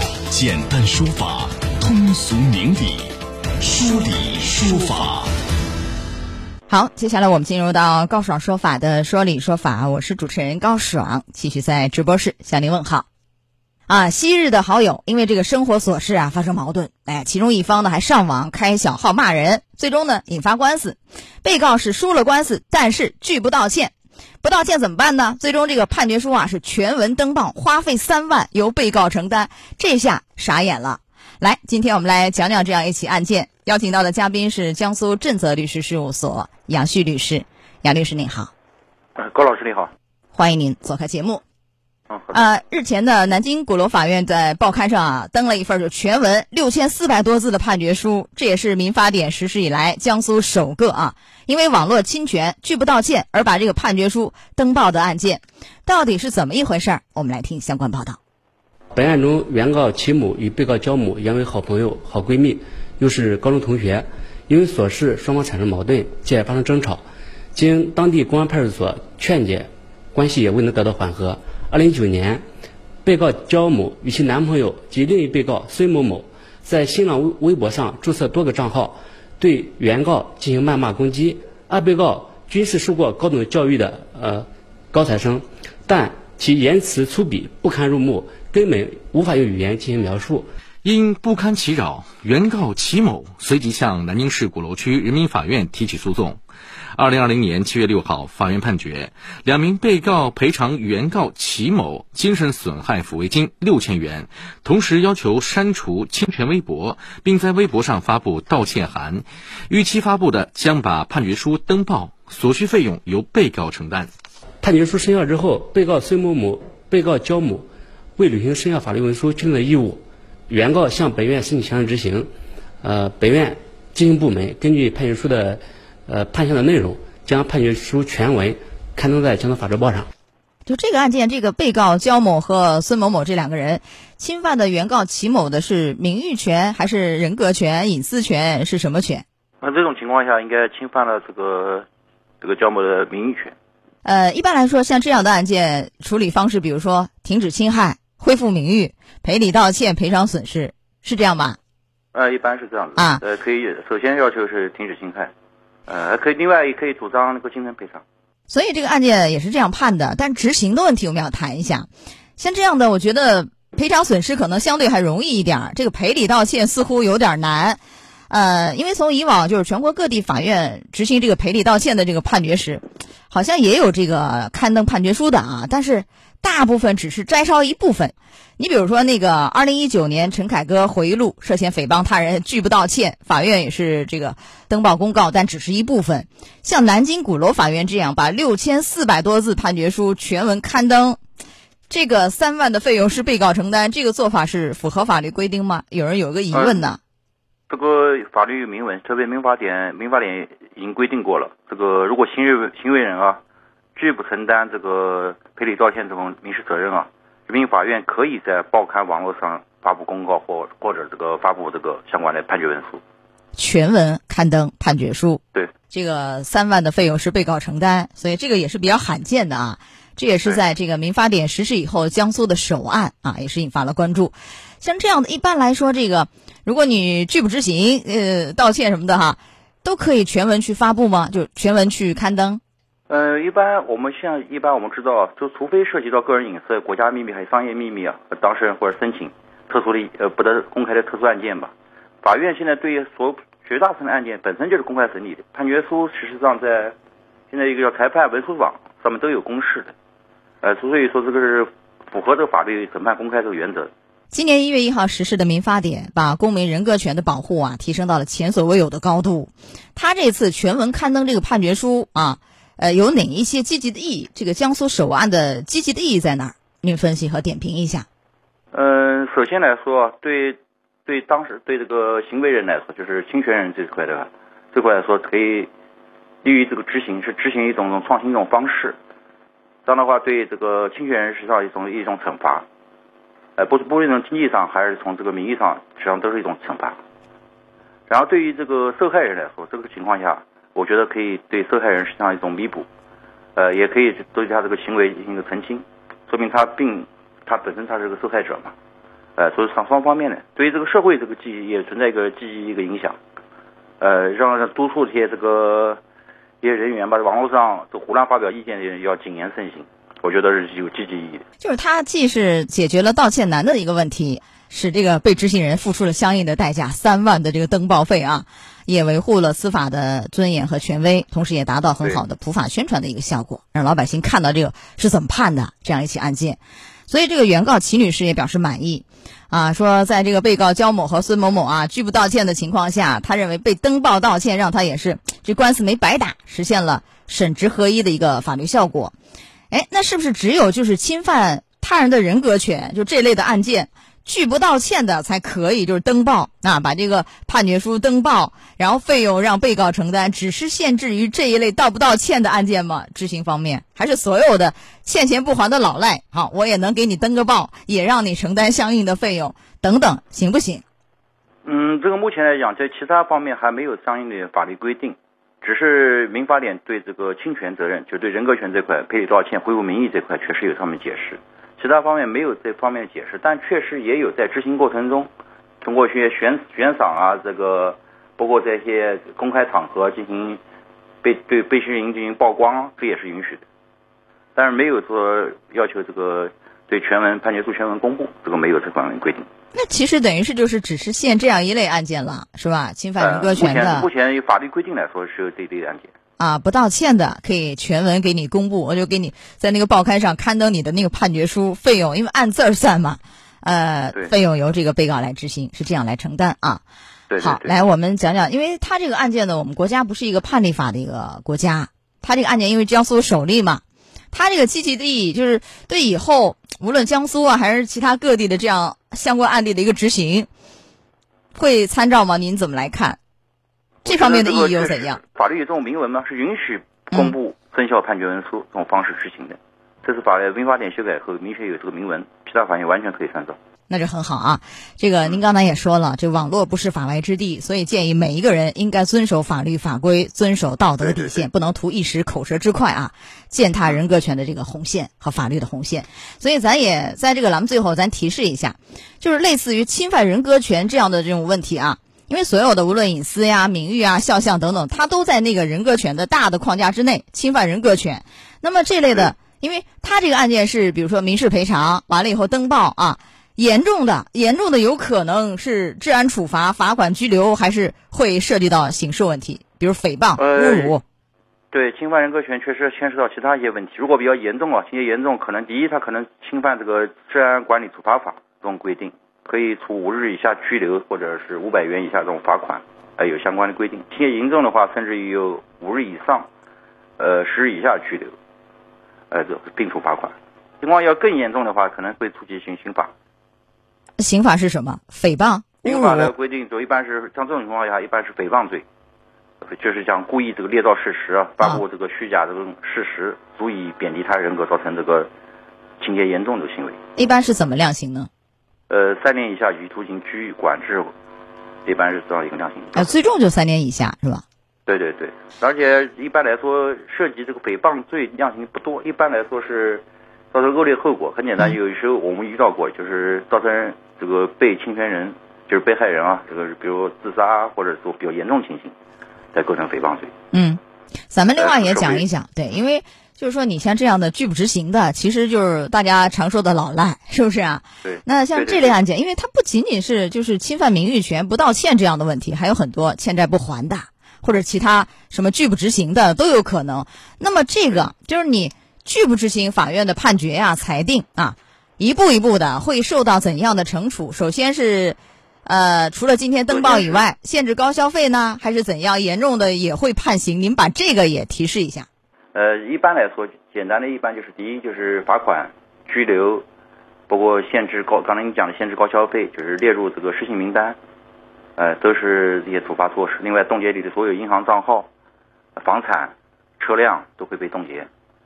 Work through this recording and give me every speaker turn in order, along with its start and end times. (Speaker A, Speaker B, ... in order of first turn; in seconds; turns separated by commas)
Speaker A: 0.3-5.3, Speaker B: 6.7-13.1, Speaker B: 13.9-38.5, Speaker C: 39.2-39.9, Speaker B: 40.3-41.4, Speaker C: 42.1-42.4, Speaker B: 42.3-58.2, Speaker D: 58.9-72.4, Speaker D: 73.0-90.5, Speaker E: 90.8-96.4, Speaker E: 97.0-114.1, Speaker D: 114.6-122.3, Speaker D: 122.8-130.1, Speaker B: 130.7-139.2, Speaker C: 139.6-141.8, Speaker C: 142.4-143.5, Speaker B: 144.0-151.6, Speaker C: 152.1-155.3, Speaker B: 153.0-153.2, Speaker C: 155.9-158.0, Speaker B: 158.5-167.8, Speaker B: 168.3-191.2, Speaker B: 191.9-197.0, Speaker C: 196.5-196.8, Speaker C: 197.7-203.4, Speaker C: 204.0-213.0, Speaker B: 213.6-232.6, Speaker C: 233.1-246.9, Speaker C: 247.5-249.9, Speaker C: 250.6-253.9, Speaker B: 254.3-268.1, Speaker C: 268.7-275.7, Speaker C: 276.4-279.0, Speaker C: 279.9-282.6, Speaker C: 283.6-287.0, Speaker C: 288.1-292.9, Speaker C: 293.6-298.7, Speaker C: 299.4-303.2, Speaker C: 304.0-306.0, Speaker C: 306.6-311.4, Speaker B: 311.6-339.1, Speaker B: 339.7-360.8, Speaker C: 361.6-375.3, Speaker C: 375.8-380.6, Speaker C: 381.2-383.6, Speaker C: 384.6-389.4, Speaker B: 389.7-394.1, Speaker C: 393.2-396.1, Speaker B: 396.4-406.8, Speaker C: 407.3-407.8, Speaker B: 407.4-420.5, Speaker B: 421.5-423.2, Speaker C: 424.0-433.6, Speaker B: 424.1-425.2, Speaker B: 433.9-471.0, Speaker C: 441.0-441.4, Speaker C: 470.4-471.0, Speaker C: 471.7-486.5, Speaker C: 487.2-488.3, Speaker C: 489.3-493.1, Speaker B: 494.2-496.3, Speaker C: 495.8-498.9, Speaker C: 499.6-505.3, Speaker C: 506.0-507.0, Speaker B: 507.2-508.3, Speaker C: 508.9-511.1, Speaker C: 511.9-513.1, Speaker B: 513.0-514.4, Speaker C: 514.9-528.9, Speaker C: 529.5-530.3, Speaker B: 530.5-530.8, Speaker B: 531.3-562.1, Speaker C: 531.6-532.3, Speaker C: 538.0-539.0, Speaker C: 556.7-557.2, Speaker C: 562.5-566.6, Speaker C: 567.3-571.0, Speaker C: 571.8-575.1, Speaker C: 575.8-578.1